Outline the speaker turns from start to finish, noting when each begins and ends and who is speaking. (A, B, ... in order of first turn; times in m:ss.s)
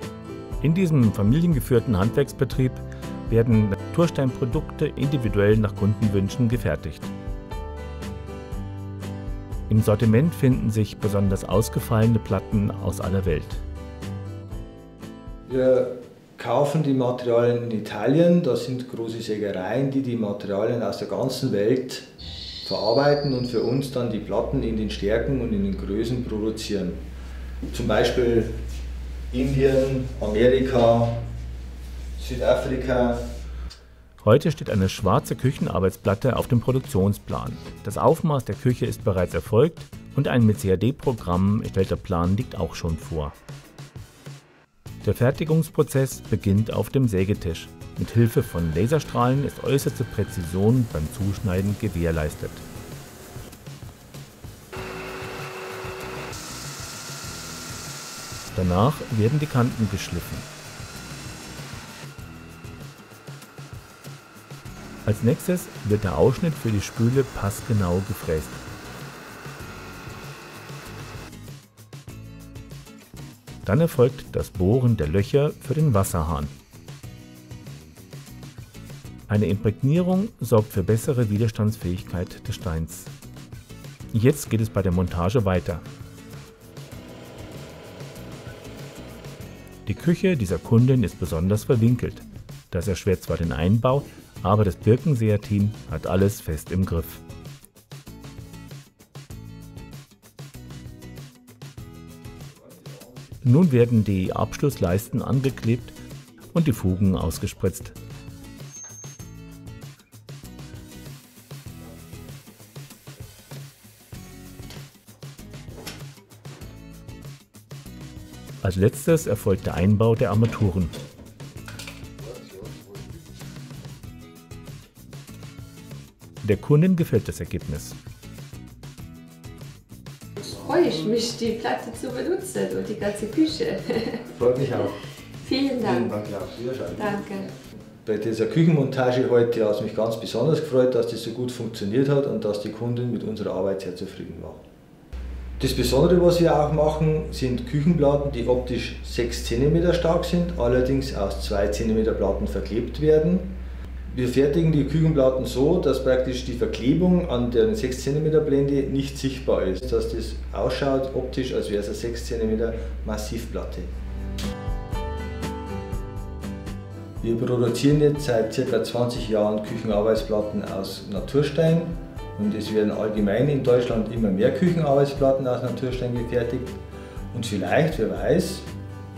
0:00.6-0:07.1 A
0:09.7-0:13.6 A
0:15.5-0:22.1 B
0:22.6-0:27.0 B
0:27.7-0:28.5 B
0:29.3-0:31.2 B
0:32.2-0:33.2 B
0:34.2-0:43.4 A
0:45.0-0:52.6 A
0:58.5-1:00.5 A
1:05.0-1:08.6 A
1:13.6-1:16.5 A
1:19.3-1:23.1 A
1:24.1-1:25.8 A
1:29.8-1:37.2 A
1:43.4-1:46.0 A
1:46.5-1:47.9 A
1:58.6-2:01.0 A
2:02.3-2:03.0 B
2:06.4-2:08.0 A
2:10.4-2:14.3 C
2:14.3-2:15.0 B
2:15.4-2:16.1 C
2:15.8-2:17.3 B
2:17.0-2:17.5 C
2:18.0-2:24.6 B
2:25.6-2:33.5 B
2:34.1-2:43.9 B
2:47.2-2:56.7 B
2:57.3-2:58.7 B